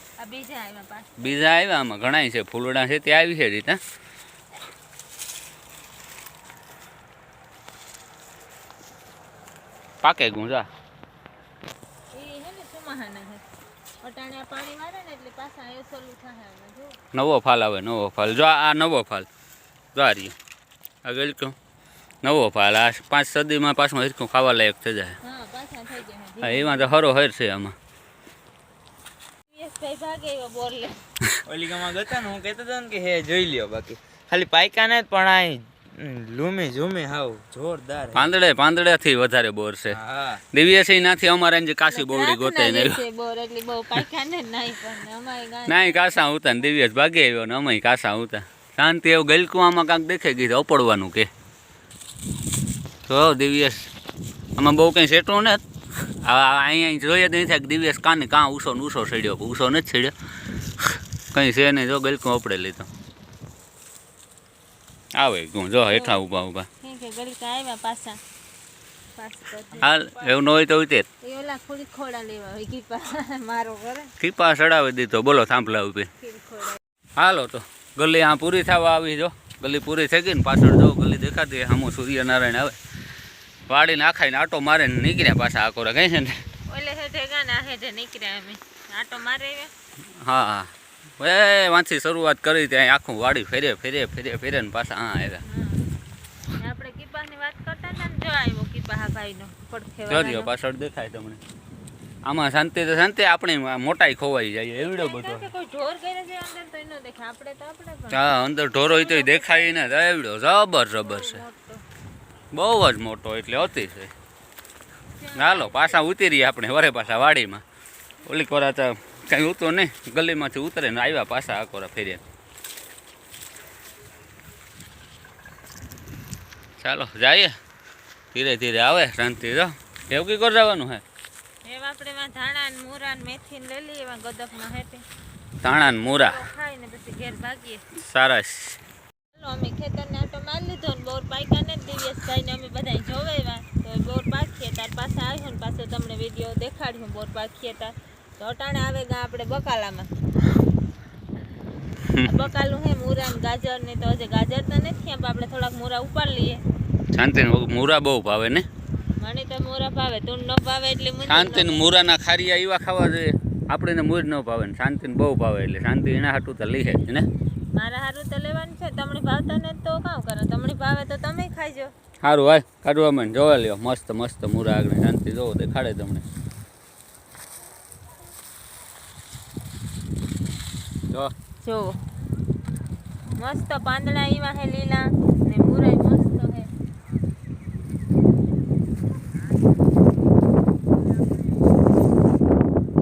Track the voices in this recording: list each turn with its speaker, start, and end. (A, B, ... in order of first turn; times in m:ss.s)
0:00.2-0:01.4 A
0:01.2-0:03.8 B
0:10.0-0:10.7 B
0:12.1-0:13.4 A
0:14.0-0:17.0 A
0:17.1-0:19.3 B
0:19.9-0:20.3 B
0:21.0-0:21.6 B
0:22.2-0:25.2 B
0:25.2-0:26.9 A
0:26.4-0:27.7 B
0:29.5-0:31.0 A
0:31.4-0:38.3 C
0:38.1-0:40.0 B
0:39.9-0:40.4 C
0:40.5-0:43.0 B
0:41.9-0:46.2 A
0:45.7-0:51.3 B
0:53.1-0:53.9 B
0:54.6-1:00.1 B
1:01.3-1:02.9 B
1:05.1-1:06.7 B
1:05.9-1:06.2 A
1:06.8-1:08.2 A
1:09.2-1:10.4 A
1:09.8-1:11.0 B
1:11.2-1:14.1 A
1:14.2-1:16.1 B
1:16.2-1:16.8 A
1:17.2-1:22.8 B
1:23.7-1:26.4 B
1:26.7-1:29.7 A
1:30.2-1:35.4 B
1:35.4-1:35.8 A
1:36.6-1:40.5 A
1:40.1-1:41.4 B
1:42.2-1:45.5 B
1:44.8-1:48.2 A
1:48.1-1:51.4 B
1:48.8-1:49.7 A
1:51.0-1:51.8 A
1:52.5-1:54.1 B
1:55.1-1:56.0 A
1:55.4-1:57.6 B
1:58.2-2:02.2 B
2:06.8-2:07.6 B
2:08.3-2:11.0 B
2:11.6-2:15.0 A
2:15.6-2:16.4 B
2:15.8-2:17.8 A
2:18.0-2:18.8 B
2:19.3-2:30.1 A
2:32.1-2:32.4 B
2:32.2-2:36.6 A
2:37.1-2:38.6 B
2:39.2-2:41.9 A
2:41.2-2:47.3 B
2:47.7-2:51.9 A
2:52.2-2:56.2 B
3:01.6-3:02.0 A
3:03.3-3:06.7 A